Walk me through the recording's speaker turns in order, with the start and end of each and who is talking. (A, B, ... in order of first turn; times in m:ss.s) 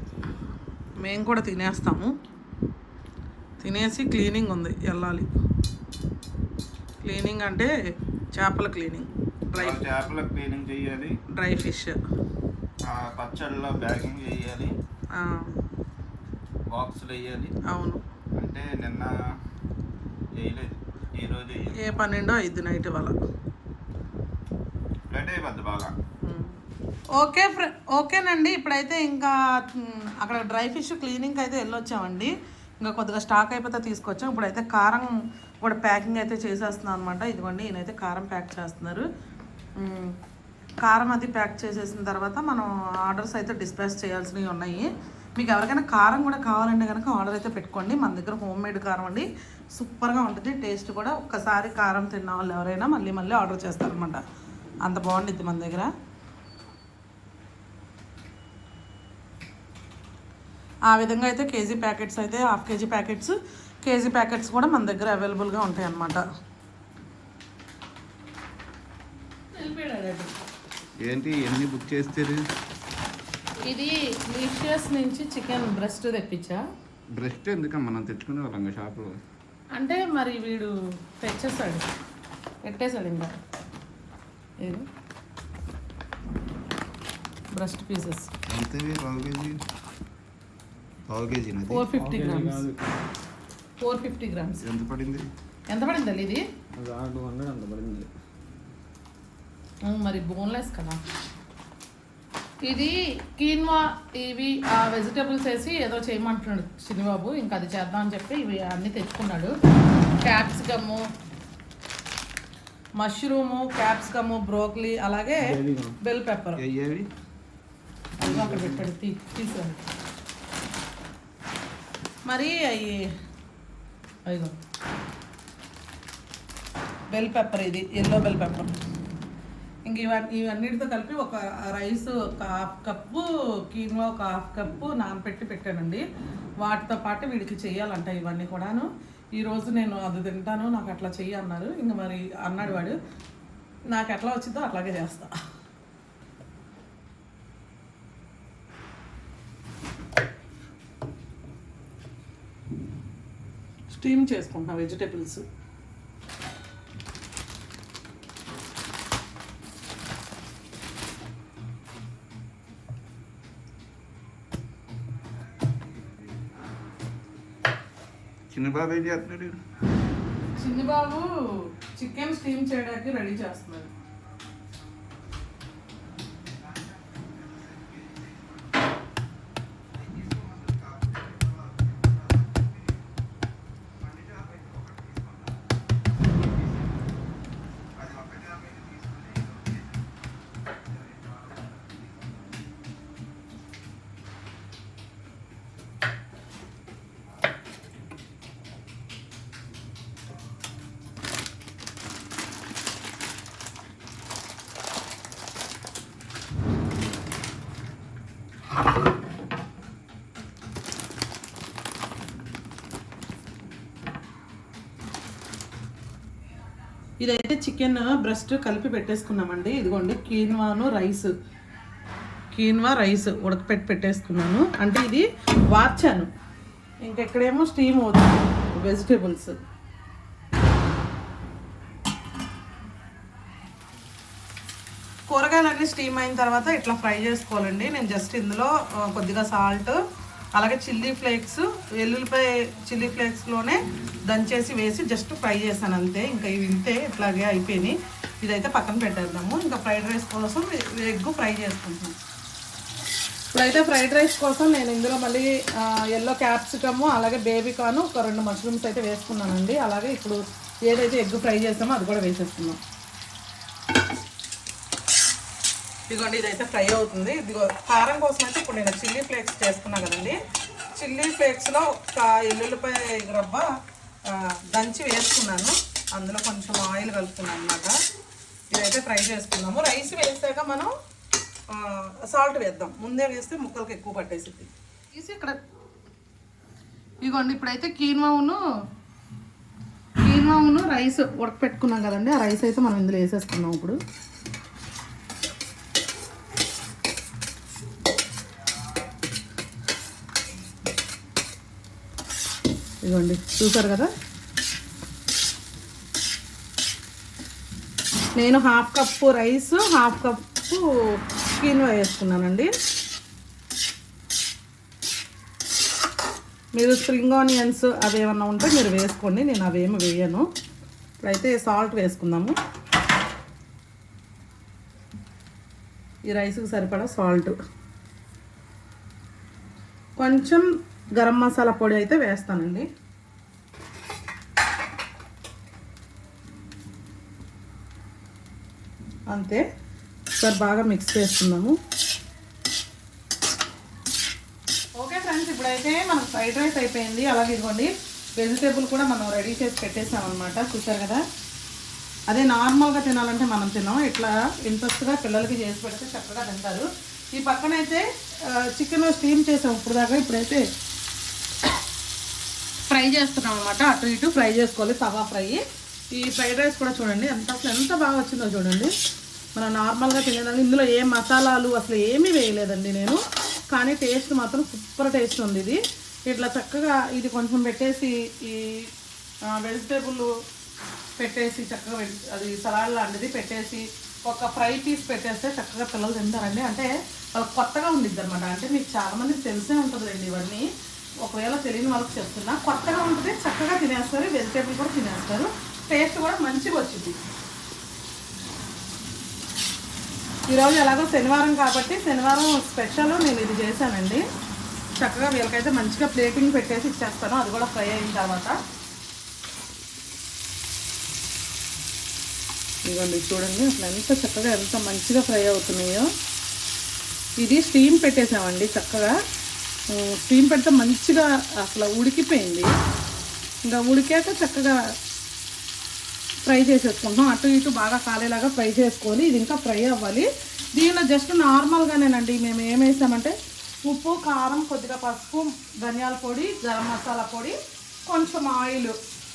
0:01.0-0:02.1 A
0:03.6-0:05.3 A
0:07.0-0:07.7 A
0:08.4-0:09.8 A
0:09.6-0:11.2 B
0:11.3-0:12.0 A
0:12.8-0:14.8 B
0:15.2-0:15.6 A
0:16.7-0:17.5 B
0:17.7-0:18.0 A
0:18.4-0:19.2 B
0:20.4-0:21.9 B
0:21.8-0:23.2 A
0:25.1-0:26.0 B
0:26.2-0:26.6 A
0:27.2-0:39.0 A
0:39.8-0:40.2 A
0:40.8-0:54.2 A
0:54.8-0:55.9 A
1:00.9-1:06.3 A
1:09.5-1:10.4 A
1:11.0-1:12.4 B
1:13.6-1:16.6 A
1:17.2-1:19.2 B
1:19.8-1:21.9 A
1:22.6-1:23.4 A
1:27.5-1:28.3 A
1:28.5-1:29.6 B
1:31.1-1:31.9 B
1:31.7-1:32.6 A
1:31.9-1:32.8 C
1:33.8-1:34.6 A
1:34.6-1:35.3 B
1:35.7-1:36.4 A
1:36.8-1:38.1 C
1:39.8-1:41.0 A
1:42.6-1:49.6 A
1:50.2-1:51.1 A
1:53.0-1:56.6 A
1:55.4-1:56.0 C
1:56.6-1:57.1 B
1:58.2-1:59.9 A
1:58.2-1:58.8 C
2:02.3-2:03.1 A
2:04.3-2:04.6 A
2:07.1-2:08.8 A
2:09.8-2:16.0 A
2:16.6-2:23.0 A
2:23.9-2:25.3 A
2:33.9-2:35.4 A
2:48.5-2:49.6 B
2:50.6-2:53.9 A
2:56.5-2:58.9 B
2:59.9-3:03.1 B
3:04.0-3:05.7 B
3:06.4-3:07.0 B
3:08.0-3:10.2 B
3:10.7-3:12.6 B
3:37.2-3:41.3 A
3:42.5-3:46.3 A
3:47.0-3:49.6 A
3:55.3-4:00.0 A
4:00.5-4:12.2 A
4:13.5-4:22.8 A
4:26.1-4:30.4 A
4:31.0-4:33.7 A
4:34.3-4:38.0 A
4:38.7-4:40.9 A
4:41.7-4:45.6 A
4:47.2-4:48.6 A
4:50.2-4:54.0 A
5:03.0-5:04.1 A
5:08.4-5:12.7 A
5:16.8-5:20.5 A
5:21.2-5:22.6 A
5:26.3-5:27.6 A
5:30.2-5:32.9 A
5:39.3-5:39.6 A
5:40.4-5:41.8 A
5:45.0-5:51.2 A
5:52.3-6:00.6 A
6:02.9-6:08.9 A
6:09.6-6:13.2 A
6:13.7-6:18.9 A
6:19.5-6:20.3 A
6:21.2-6:30.7 A
6:31.2-6:37.2 A
6:40.5-6:44.2 A
6:45.0-6:48.6 A
6:52.8-6:56.1 A
6:57.4-6:59.2 A
6:59.9-7:02.7 A
7:03.6-7:04.8 A
7:06.5-7:19.0 A